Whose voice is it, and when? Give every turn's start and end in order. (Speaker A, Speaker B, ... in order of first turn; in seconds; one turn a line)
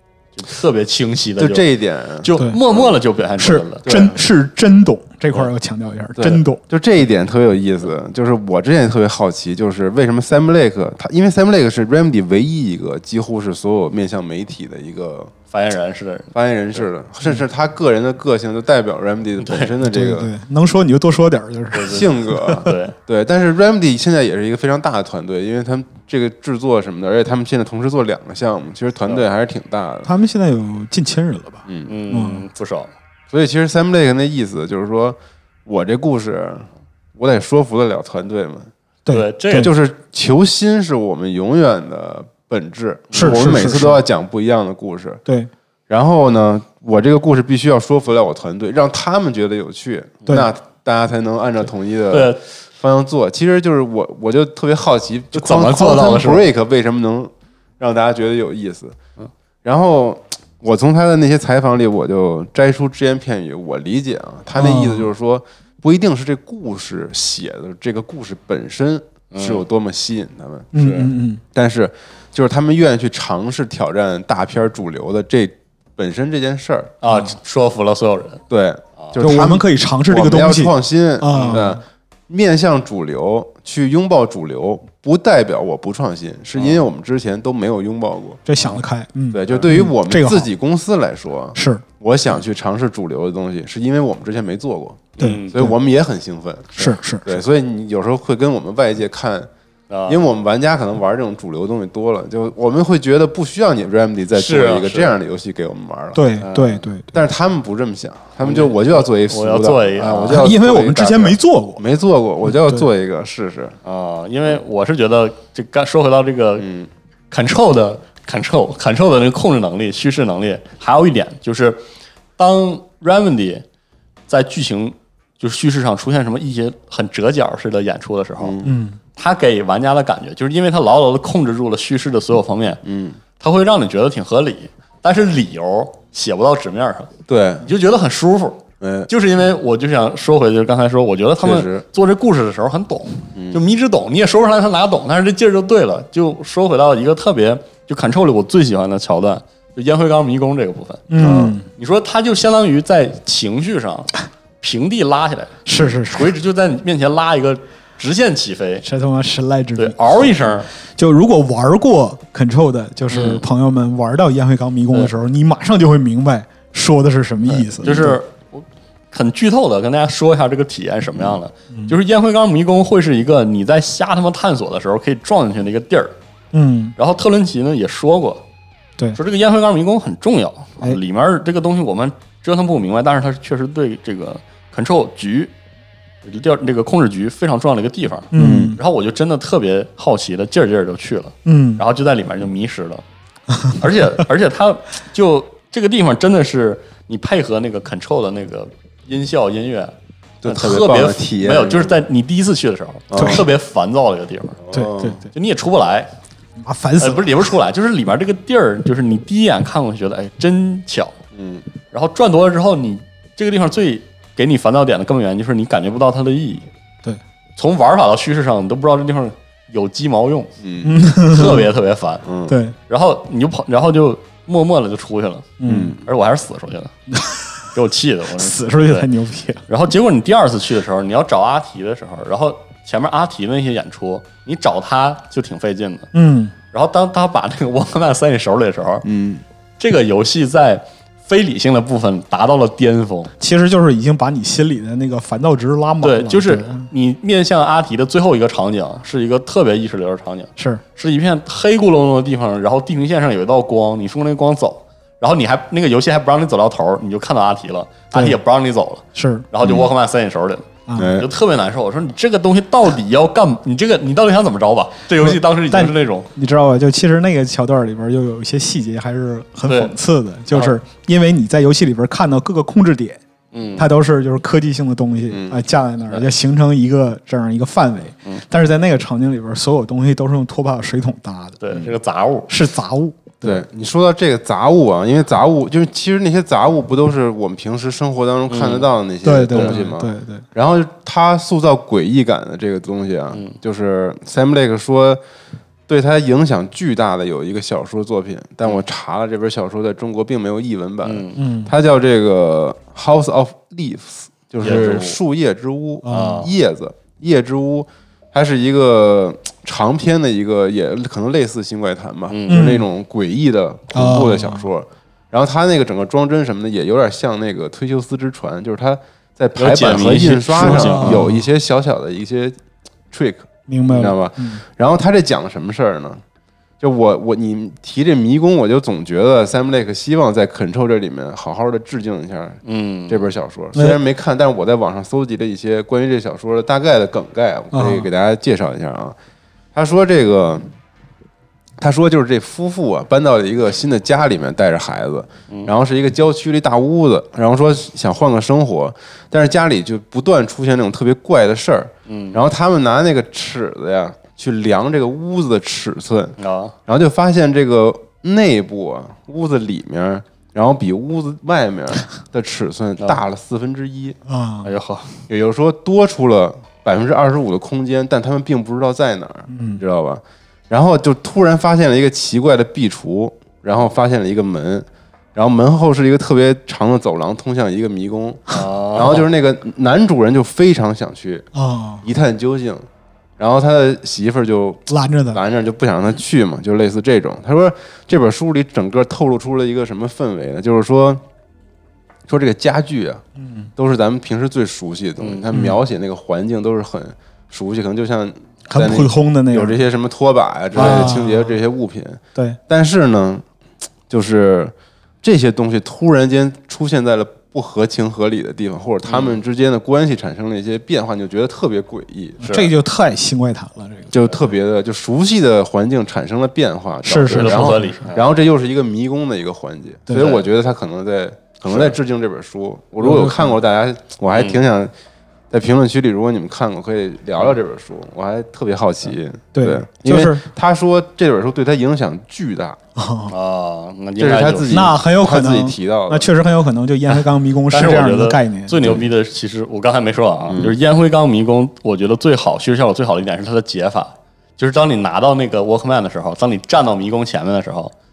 Speaker A: 0.3-1.6
Speaker B: 1.4-3.0
Speaker A: 2.2-4.0
Speaker C: 3.4-6.6
Speaker B: 3.8-4.2
Speaker B: 6.2-15.3
Speaker A: 15.5-16.8
Speaker B: 16.3-20.3
Speaker A: 19.4-19.7
Speaker C: 19.8-22.7
Speaker A: 21.7-22.9
Speaker B: 21.8-30.1
Speaker C: 30.0-32.4
Speaker B: 31.7-31.9
Speaker A: 31.9-32.9
Speaker B: 33.3-38.7
Speaker C: 39.0-39.7
Speaker A: 39.1-39.7
Speaker B: 39.5-45.2
Speaker A: 43.1-43.7
Speaker C: 43.1-44.0
Speaker B: 45.9-59.0
Speaker A: 52.1-52.4
Speaker A: 55.3-56.5
Speaker B: 59.6-76.9
Speaker C: 64.5-65.1
Speaker A: 69.3-69.6
Speaker C: 70.7-71.4
Speaker A: 77.0-78.4
Speaker B: 78.5-88.4
Speaker C: 79.2-81.8
Speaker A: 81.3-81.7
Speaker A: 86.5-86.8
Speaker C: 88.5-90.5
Speaker B: 89.3-99.5
Speaker C: 91.5-91.8
Speaker A: 95.2-95.6
Speaker C: 95.2-95.7
Speaker C: 96.8-97.4
Speaker A: 99.9-100.2
Speaker B: 100.1-106.2
Speaker A: 104.3-105.1
Speaker C: 106.1-107.1
Speaker A: 106.4-106.8
Speaker B: 107.1-113.7
Speaker A: 108.4-111.1
Speaker C: 110.3-111.8
Speaker C: 112.5-112.9
Speaker A: 113.8-116.7
Speaker B: 116.6-116.9
Speaker A: 117.3-121.8
Speaker A: 122.4-123.6
Speaker A: 124.3-128.6
Speaker B: 128.4-128.8
Speaker C: 128.6-129.0
Speaker A: 129.2-132.8
Speaker B: 132.8-133.2
Speaker A: 133.4-137.1
Speaker B: 137.3-137.7
Speaker A: 137.6-151.1
Speaker B: 138.8-139.1
Speaker B: 141.4-141.8
Speaker B: 143.3-143.6
Speaker C: 151.1-151.7
Speaker B: 151.2-151.6
Speaker A: 151.7-158.8
Speaker C: 155.7-156.3
Speaker C: 158.8-160.0
Speaker A: 159.8-160.7
Speaker C: 160.9-168.2
Speaker A: 163.1-163.4
Speaker A: 167.5-176.2
Speaker C: 176.5-176.9
Speaker A: 177.0-178.4
Speaker A: 179.1-185.5
Speaker A: 186.2-193.0
Speaker C: 188.3-188.8
Speaker B: 188.3-188.8
Speaker C: 191.4-191.8
Speaker A: 193.8-199.9
Speaker B: 200.4-202.0
Speaker A: 200.4-204.6
Speaker B: 203.1-203.5
Speaker C: 203.1-203.4
Speaker B: 204.6-205.2
Speaker C: 204.7-205.3
Speaker A: 205.3-206.1
Speaker C: 206.6-207.4
Speaker A: 207.0-211.2
Speaker B: 211.3-211.7
Speaker A: 211.9-216.7
Speaker A: 217.6-220.5
Speaker B: 220.6-221.5
Speaker C: 220.8-221.7
Speaker A: 221.3-222.2
Speaker B: 222.2-222.6
Speaker C: 222.5-222.8
Speaker A: 222.9-226.9
Speaker C: 225.6-225.9
Speaker B: 225.7-226.0
Speaker C: 227.1-227.6
Speaker A: 227.7-229.1
Speaker C: 228.4-229.6
Speaker A: 229.7-236.1
Speaker C: 236.1-236.5
Speaker A: 236.7-239.0
Speaker B: 239.0-239.4
Speaker A: 239.8-243.3
Speaker C: 243.4-246.9
Speaker A: 246.0-266.3
Speaker C: 258.1-258.4
Speaker C: 259.1-259.4
Speaker B: 259.6-259.9
Speaker C: 260.9-261.1
Speaker B: 261.0-261.3
Speaker C: 265.2-273.2
Speaker A: 269.7-269.9
Speaker A: 270.5-270.8
Speaker A: 273.5-273.9
Speaker C: 273.8-281.6
Speaker B: 275.3-275.6
Speaker A: 281.6-282.5
Speaker C: 282.5-283.6
Speaker B: 283.4-295.2
Speaker A: 288.5-288.9
Speaker C: 289.2-290.4
Speaker A: 289.5-289.8
Speaker B: 295.9-322.6
Speaker A: 301.0-301.4
Speaker C: 301.4-301.7
Speaker A: 304.6-305.2
Speaker C: 306.0-306.5
Speaker A: 306.1-306.5
Speaker A: 312.3-312.7
Speaker C: 312.5-312.8
Speaker C: 313.9-314.6
Speaker A: 319.6-321.3
Speaker C: 320.6-321.4
Speaker B: 323.1-326.2
Speaker C: 323.7-324.6
Speaker B: 326.8-339.1
Speaker A: 332.6-333.3
Speaker C: 333.7-334.0
Speaker C: 337.7-338.1
Speaker B: 339.7-340.6
Speaker B: 341.8-356.4
Speaker A: 352.1-352.4
Speaker A: 356.4-356.7
Speaker B: 356.9-364.2
Speaker C: 364.3-364.7
Speaker A: 364.6-365.2
Speaker B: 365.3-381.5
Speaker C: 369.5-369.8
Speaker A: 378.5-379.3
Speaker C: 381.5-382.0
Speaker B: 382.0-382.9
Speaker B: 383.4-391.2
Speaker C: 384.9-385.4
Speaker B: 392.3-393.2
Speaker C: 393.4-393.7
Speaker B: 393.8-403.4
Speaker A: 395.2-395.4
Speaker C: 398.7-399.8
Speaker C: 400.7-401.5
Speaker B: 404.1-412.4
Speaker A: 409.1-409.4
Speaker C: 412.4-414.1
Speaker A: 412.4-412.7
Speaker B: 414.1-424.9
Speaker C: 417.0-418.0
Speaker A: 417.1-418.2
Speaker A: 420.1-420.4
Speaker A: 421.6-421.9
Speaker C: 423.0-423.5
Speaker B: 425.5-432.8
Speaker C: 429.5-430.4
Speaker C: 432.9-433.3
Speaker A: 433.3-434.9
Speaker B: 434.2-436.3
Speaker C: 434.7-438.9
Speaker A: 437.1-447.9
Speaker B: 440.5-440.8